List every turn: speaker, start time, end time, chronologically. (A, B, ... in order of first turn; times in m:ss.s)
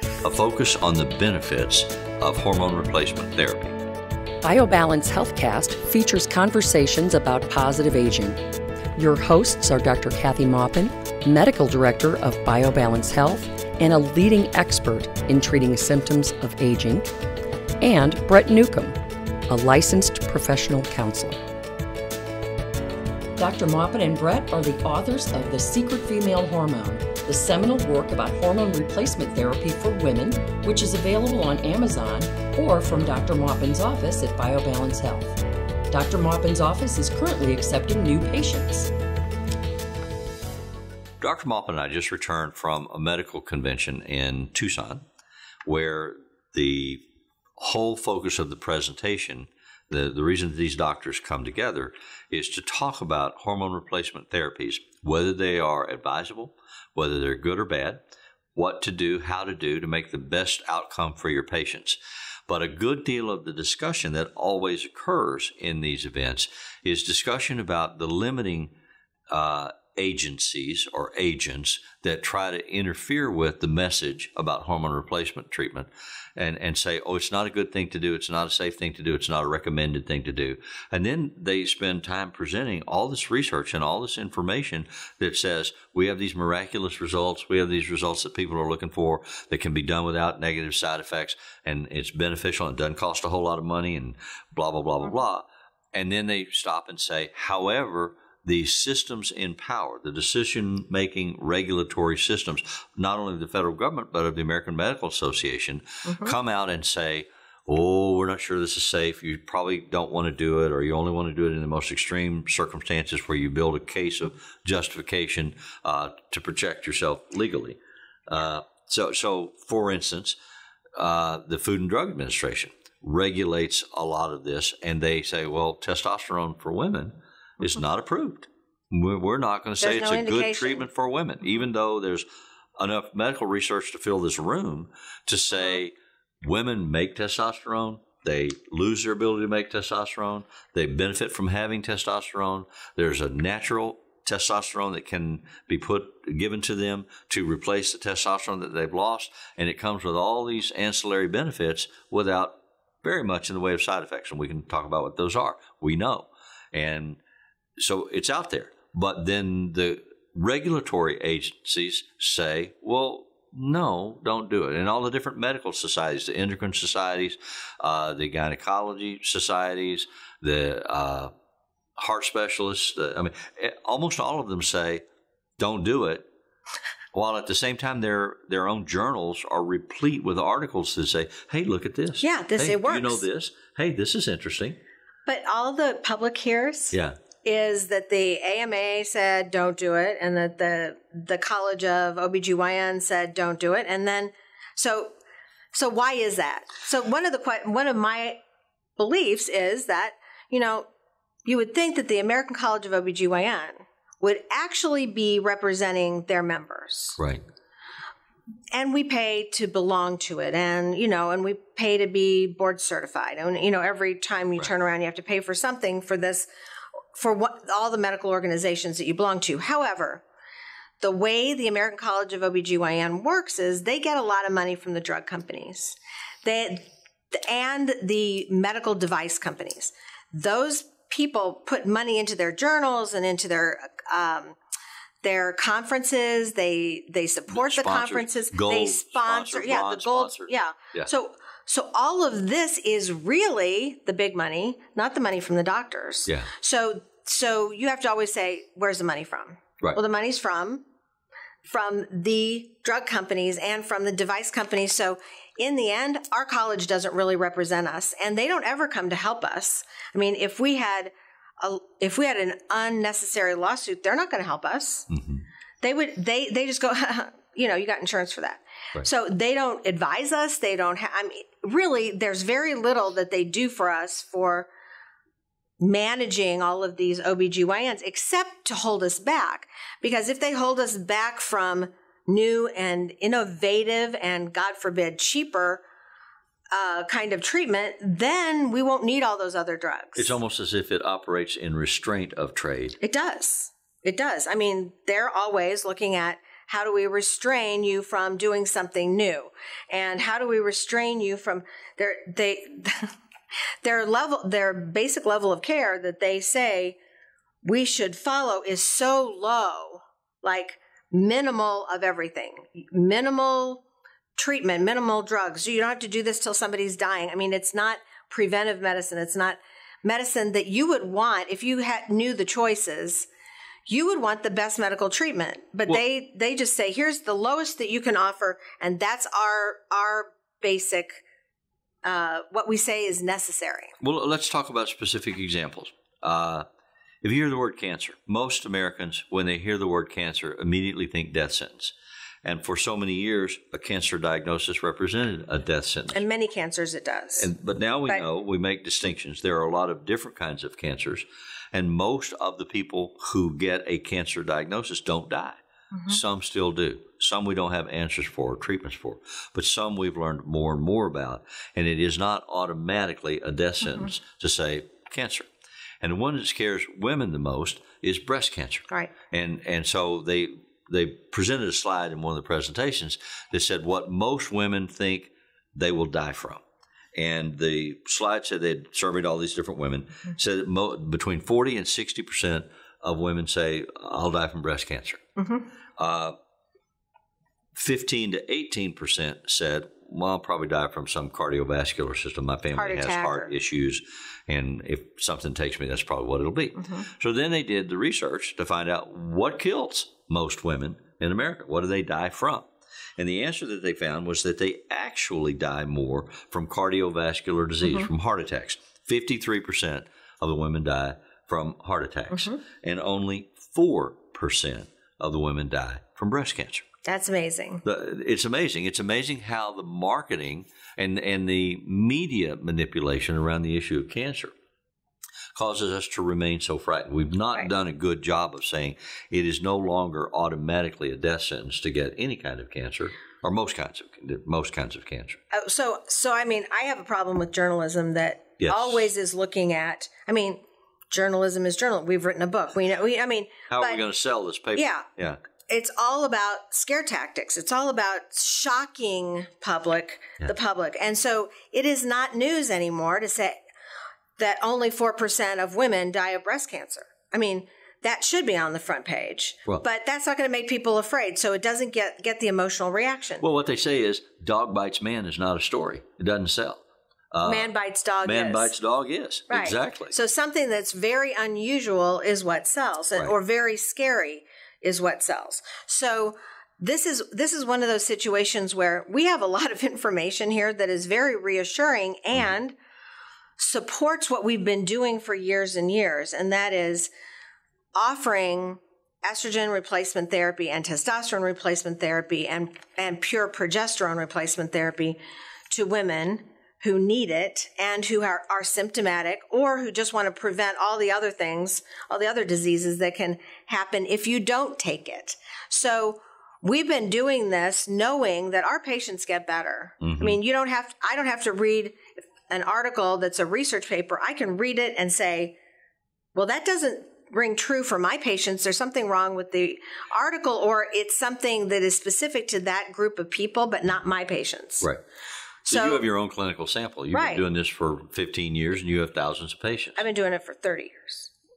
0:00.2-0:03.8 A
0:04.4-0:08.4 B
0:09.0-0:17.1 B
0:17.8-0:19.0 B
0:19.5-0:21.4 B
0:23.4-0:35.3 B
0:35.9-0:38.9 B
0:41.2-0:45.0 A
0:45.6-0:47.0 A
0:47.6-0:58.0 A
0:58.5-1:08.7 A
1:09.3-2:00.4 A
1:46.1-1:46.3 C
2:01.0-2:12.2 A
2:09.8-2:10.8 C
2:12.8-2:37.2 A
2:37.8-2:51.3 A
2:52.0-2:55.0 A
2:55.6-2:56.2 A
2:57.1-3:04.8 A
3:02.2-3:03.2 C
3:05.2-3:15.1 C
3:15.7-3:18.4 C
3:19.0-3:20.9 C
3:21.4-3:27.2 C
3:27.2-3:27.4 A
3:28.7-3:36.5 C
3:37.1-3:40.2 C
3:41.0-3:54.6 C
3:55.2-4:10.8 C
3:57.5-4:01.1 A
4:11.7-4:25.1 C
4:25.1-4:25.4 A
4:25.8-4:34.7 C
4:35.8-4:45.8 C
4:46.7-4:50.3 C
4:50.2-4:53.0 A
4:53.0-5:03.1 C
5:03.8-5:07.0 C
5:07.6-5:13.8 C
5:14.4-5:23.3 C
5:23.9-5:31.2 C
5:32.0-5:33.9 C
5:34.0-5:36.6 A
5:37.2-5:41.9 A
5:42.4-5:46.2 A
5:46.1-5:47.5 C
5:47.4-6:05.5 A
5:55.9-5:56.2 C
6:06.0-6:16.6 A
6:17.1-6:25.2 A
6:25.4-6:25.6 C
6:26.0-6:26.4 A
6:27.8-6:56.8 A
6:32.7-6:33.5 C
6:36.8-6:37.0 C
6:52.3-6:52.6 C
6:57.0-6:57.8 C
6:57.8-7:04.5 A
7:05.5-7:15.4 A
7:15.5-7:24.0 C
7:18.6-7:19.1 A
7:23.7-7:25.4 A
7:24.7-7:25.0 C
7:25.7-7:33.6 C
7:34.4-7:43.4 C
7:43.4-7:47.7 A
7:47.4-7:48.7 C
7:48.2-7:50.1 A
7:49.5-8:02.7 C
8:03.6-8:07.1 C
8:07.9-8:15.2 C
8:15.7-8:35.5 C
8:30.0-8:30.4 A
8:36.3-8:44.9 C
8:45.6-8:46.0 C
8:45.7-8:50.0 A
8:47.1-8:47.4 C
8:50.0-8:51.3 C